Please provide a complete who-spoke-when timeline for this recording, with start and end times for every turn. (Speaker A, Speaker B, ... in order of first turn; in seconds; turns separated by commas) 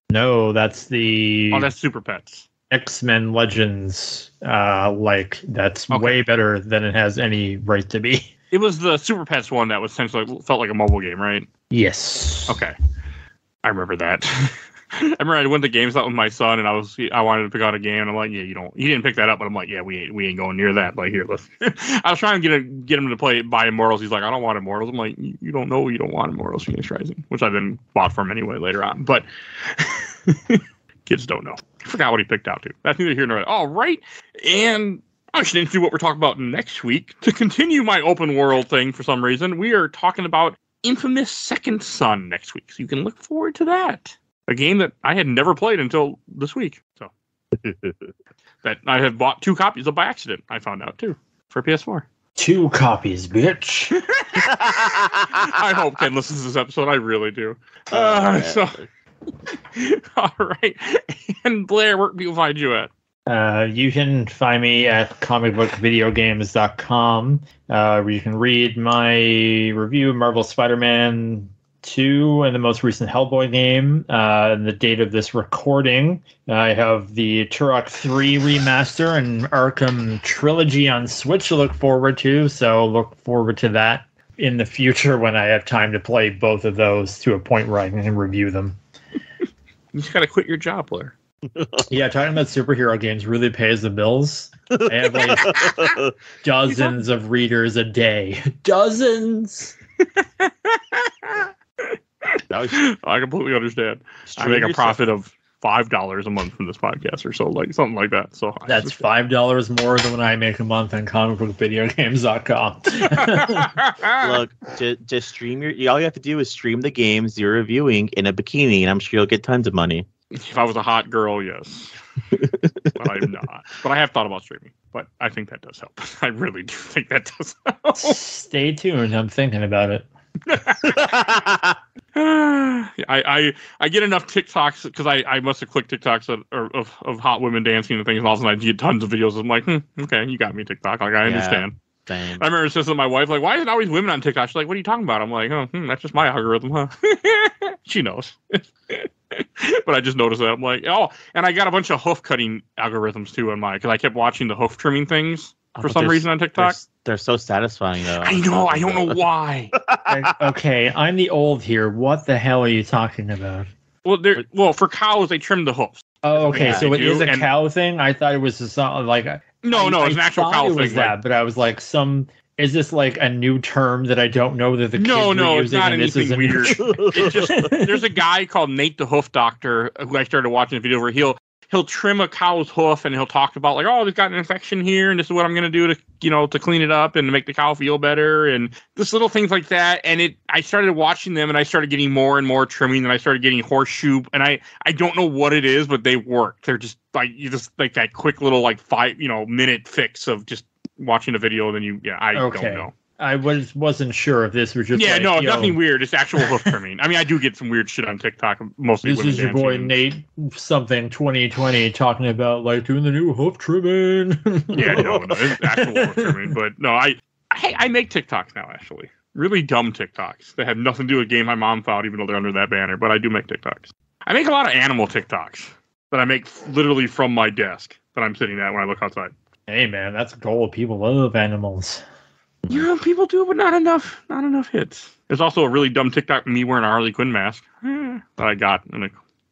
Speaker A: 0.1-1.7, Speaker B: 1.5-2.5, Speaker A: 2.7-8.3, Speaker B: 5.9-6.2, Speaker B: 8.5-11.5, Speaker A: 11.7-12.6, Speaker B: 12.5-12.7, Speaker B: 13.6-47.1, Speaker C: 47.5-48.1, Speaker B: 48.6-52.0, Speaker A: 52.4-54.0, Speaker B: 54.2-58.8, Speaker C: 54.5-55.5, Speaker C: 57.9-58.8, Speaker B: 59.7-62.9, Speaker A: 63.3-88.8, Speaker B: 89.9-91.1, Speaker C: 91.5-91.8, Speaker A: 91.9-95.7, Speaker C: 94.7-96.1, Speaker B: 95.5-96.0, Speaker A: 96.4-99.8, Speaker B: 96.7-97.0, Speaker B: 100.2-109.1, Speaker C: 102.5-102.8, Speaker C: 104.3-105.0, Speaker A: 108.7-113.7, Speaker B: 113.0-114.4, Speaker C: 114.2-120.1, Speaker B: 120.3-121.9, Speaker C: 122.3-123.3, Speaker B: 122.9-128.2, Speaker A: 128.0-130.1, Speaker B: 130.5-131.3, Speaker C: 130.9-131.8, Speaker B: 132.2-141.8, Speaker C: 141.2-142.5, Speaker B: 142.4-156.8, Speaker C: 155.7-159.2, Speaker B: 158.2-159.7, Speaker C: 159.7-160.5, Speaker A: 160.1-163.7, Speaker B: 164.1-167.5, Speaker A: 166.2-178.0, Speaker C: 166.6-167.0, Speaker B: 169.6-171.2, Speaker B: 174.9-202.9, Speaker C: 176.8-177.7, Speaker A: 202.3-205.8, Speaker B: 204.9-209.9, Speaker A: 206.4-206.7, Speaker A: 209.0-216.5, Speaker B: 214.7-229.3, Speaker C: 214.8-215.4, Speaker A: 229.7-232.0, Speaker B: 232.7-239.2